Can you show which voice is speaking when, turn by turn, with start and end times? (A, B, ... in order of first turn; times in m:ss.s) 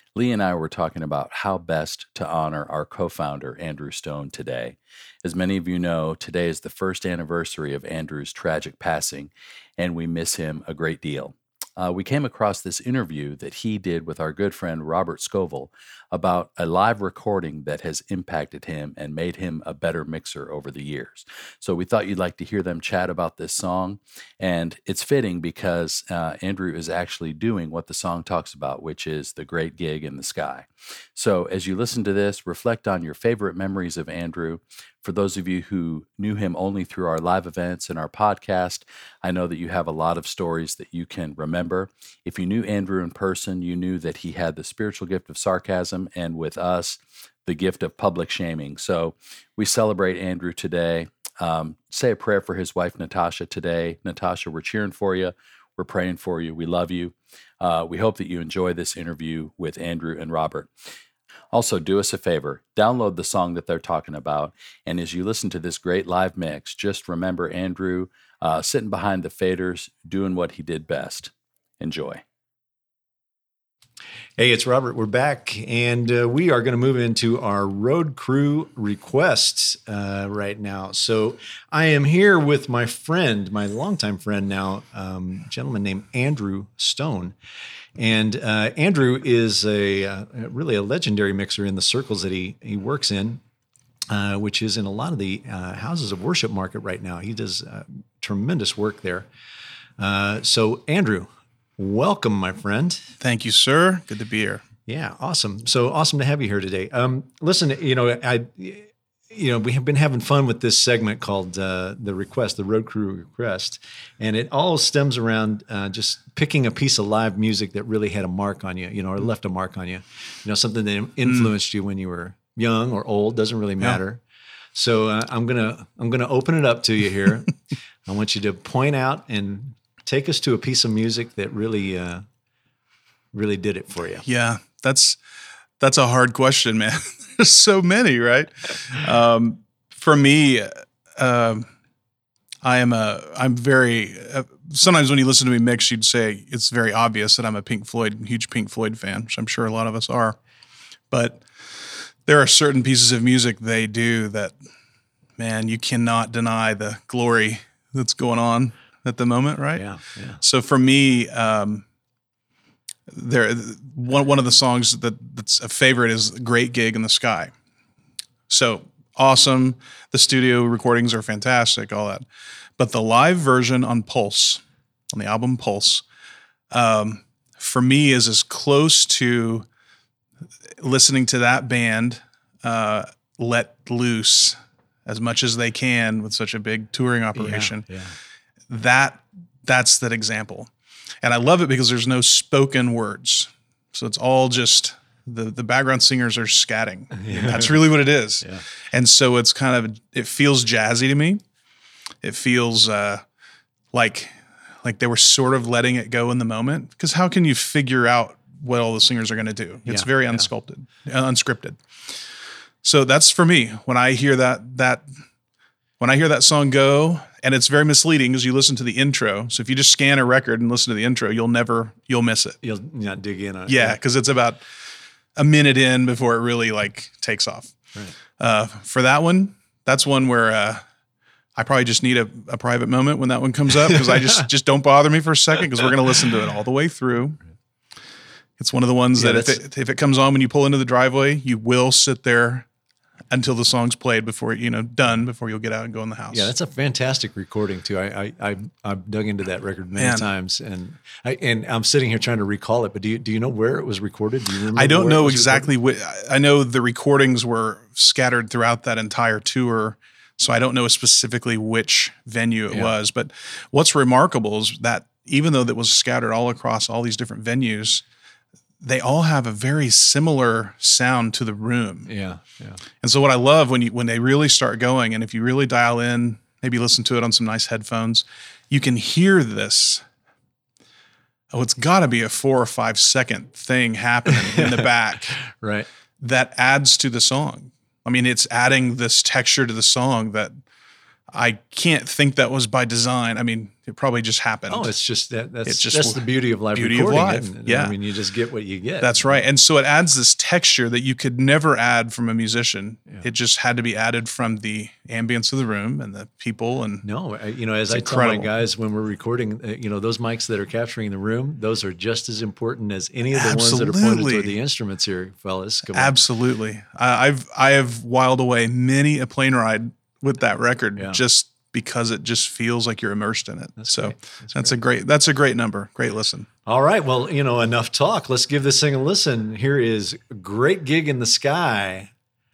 0:00.1-1:00.7 A
1:01.5-1:12.2 A
1:14.4-1:27.4 B
1:28.0-1:33.4 B
1:34.1-1:39.3 B
1:40.0-1:43.1 B
1:43.2-1:44.6 C
1:44.8-2:04.2 B
2:01.2-2:01.5 C
2:04.7-2:12.2 B
2:13.3-2:14.2 B
2:14.2-2:15.2 C
2:15.8-2:21.7 C
2:22.6-2:30.4 C
2:31.1-2:34.5 C
2:35.4-2:39.9 C
2:39.7-2:40.4 B
2:40.4-2:41.8 C
2:43.1-2:47.5 C
2:48.5-2:52.2 C
2:52.8-2:56.0 C
2:56.7-2:59.7 C
3:00.8-3:07.8 C
3:07.3-3:08.2 B
3:08.7-3:10.7 C
3:11.2-3:21.4 C
3:17.2-3:17.8 B
3:22.2-3:23.2 C
3:23.9-3:31.8 C
3:29.8-3:30.5 B
3:32.8-3:35.1 C
3:36.0-3:42.6 C
3:42.6-3:44.0 B
3:43.7-3:44.6 C
3:45.4-3:47.8 C
3:48.4-3:50.8 C
3:51.6-3:57.4 C
3:58.6-4:02.6 C
3:59.1-3:59.6 B
4:03.3-4:06.5 C
4:06.3-4:15.7 B
4:10.0-4:10.3 C
4:14.8-4:28.0 C
4:22.7-4:23.0 B
4:28.8-4:32.1 C
4:32.0-4:32.8 B
4:33.0-4:40.0 C
4:41.5-4:45.4 C
4:44.3-4:44.8 B
4:45.4-4:45.9 B
4:46.2-4:50.6 C
4:51.3-4:54.9 C
4:54.7-4:59.4 B
4:55.6-4:58.0 C
4:59.0-5:07.0 C
5:07.0-5:16.2 B
5:07.9-5:08.5 C
5:13.3-5:14.6 C
5:15.9-5:26.5 C
5:23.8-5:24.8 B
5:26.6-5:32.1 B